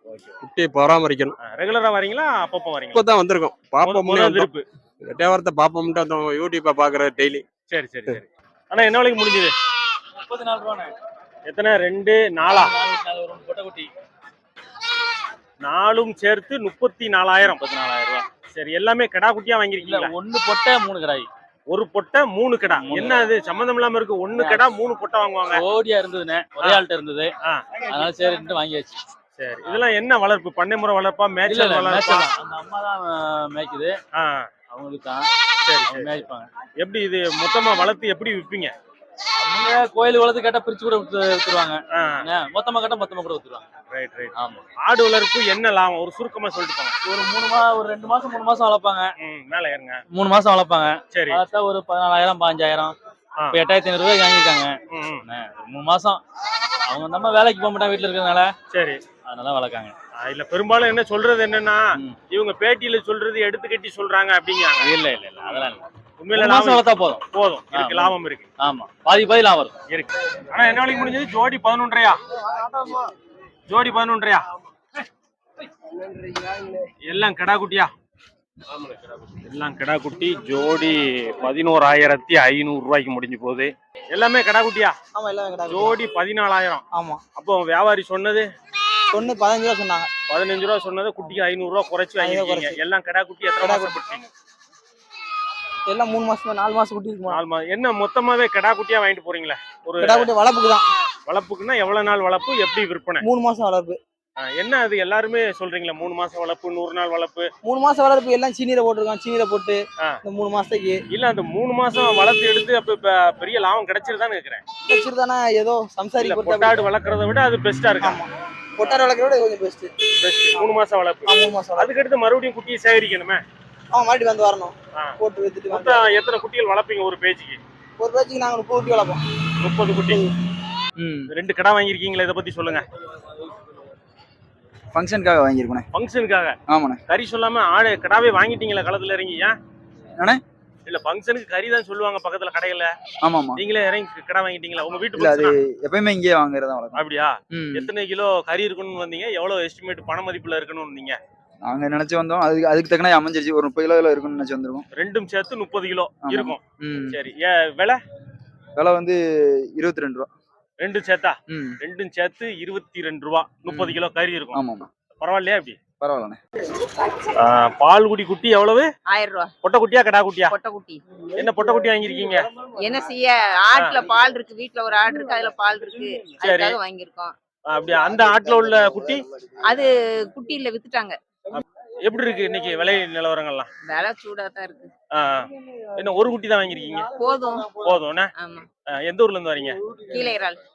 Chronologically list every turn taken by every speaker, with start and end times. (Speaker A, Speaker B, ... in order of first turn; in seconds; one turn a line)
Speaker A: 0.4-1.3
Speaker B: 1.4-3.0
Speaker A: 2.9-4.5
Speaker B: 3.8-4.6
Speaker A: 5.0-7.4
Speaker B: 7.7-9.5
Speaker C: 10.3-10.9
Speaker B: 11.5-12.7
Speaker C: 12.5-13.9
Speaker B: 15.6-17.6
Speaker C: 17.4-18.3
Speaker B: 18.5-20.1
Speaker C: 19.8-21.3
Speaker B: 21.7-25.6
Speaker C: 22.8-23.3
Speaker C: 24.3-24.7
Speaker C: 25.5-27.3
Speaker C: 27.9-29.0
Speaker B: 29.4-32.3
Speaker C: 31.5-34.0
Speaker B: 34.2-34.5
Speaker C: 34.7-35.3
Speaker B: 35.6-36.2
Speaker C: 35.9-36.5
Speaker B: 36.8-38.7
Speaker C: 39.4-43.6
Speaker B: 41.9-42.2
Speaker B: 43.9-46.9
Speaker C: 44.4-44.6
Speaker C: 47.0-49.1
Speaker B: 49.2-50.0
Speaker C: 50.1-53.0
Speaker B: 51.1-51.4
Speaker C: 53.5-56.2
Speaker B: 54.9-55.2
Speaker C: 56.9-58.5
Speaker B: 58.7-59.0
Speaker C: 59.2-60.0
Speaker B: 60.2-65.0
Speaker C: 64.8-65.8
Speaker B: 66.2-68.5
Speaker C: 66.3-69.7
Speaker B: 69.9-72.2
Speaker B: 73.7-74.5
Speaker D: 76.0-76.8
Speaker B: 77.1-77.9
Speaker B: 79.4-85.0
Speaker D: 85.1-86.0
Speaker B: 85.7-86.8
Speaker D: 86.9-87.2
Speaker B: 87.4-88.5
Speaker D: 89.1-90.1
Speaker B: 90.3-94.2
Speaker D: 92.2-92.8
Speaker D: 93.6-94.0
Speaker D: 95.9-97.4
Speaker B: 97.3-100.3
Speaker D: 100.0-100.9
Speaker B: 101.3-103.2
Speaker D: 103.2-104.0
Speaker B: 104.4-107.5
Speaker D: 107.6-111.0
Speaker B: 111.1-114.6
Speaker D: 114.9-116.8
Speaker B: 116.2-118.2
Speaker D: 118.0-119.9
Speaker B: 118.8-119.1
Speaker B: 120.2-123.4
Speaker D: 121.3-121.9
Speaker D: 123.9-126.0
Speaker B: 125.7-127.6
Speaker D: 128.0-129.2
Speaker B: 129.6-130.2
Speaker E: 131.0-131.3
Speaker B: 131.3-132.8
Speaker E: 134.9-135.8
Speaker B: 135.9-136.5
Speaker E: 136.7-137.0
Speaker B: 137.1-139.5
Speaker B: 140.9-142.9
Speaker E: 143.2-143.6
Speaker B: 143.6-145.5
Speaker E: 145.2-147.0
Speaker B: 146.9-151.2
Speaker E: 147.5-147.9
Speaker E: 151.7-154.8
Speaker B: 155.0-158.0
Speaker E: 156.2-157.2
Speaker E: 158.8-159.2
Speaker E: 159.8-160.3
Speaker B: 160.8-164.6
Speaker E: 161.5-161.8
Speaker E: 163.7-164.0
Speaker E: 164.5-164.9
Speaker B: 165.2-165.8
Speaker E: 166.0-166.4
Speaker B: 167.4-168.9
Speaker F: 169.1-169.5
Speaker B: 169.6-170.5
Speaker F: 170.5-171.0
Speaker B: 171.4-172.5
Speaker F: 172.8-177.3
Speaker B: 176.4-176.8
Speaker B: 177.7-179.2
Speaker F: 179.7-181.2
Speaker B: 181.5-183.7
Speaker F: 183.9-184.9
Speaker B: 185.1-187.1
Speaker F: 187.1-187.7
Speaker B: 187.8-188.3
Speaker F: 188.4-188.7
Speaker B: 188.9-189.8
Speaker F: 190.1-190.6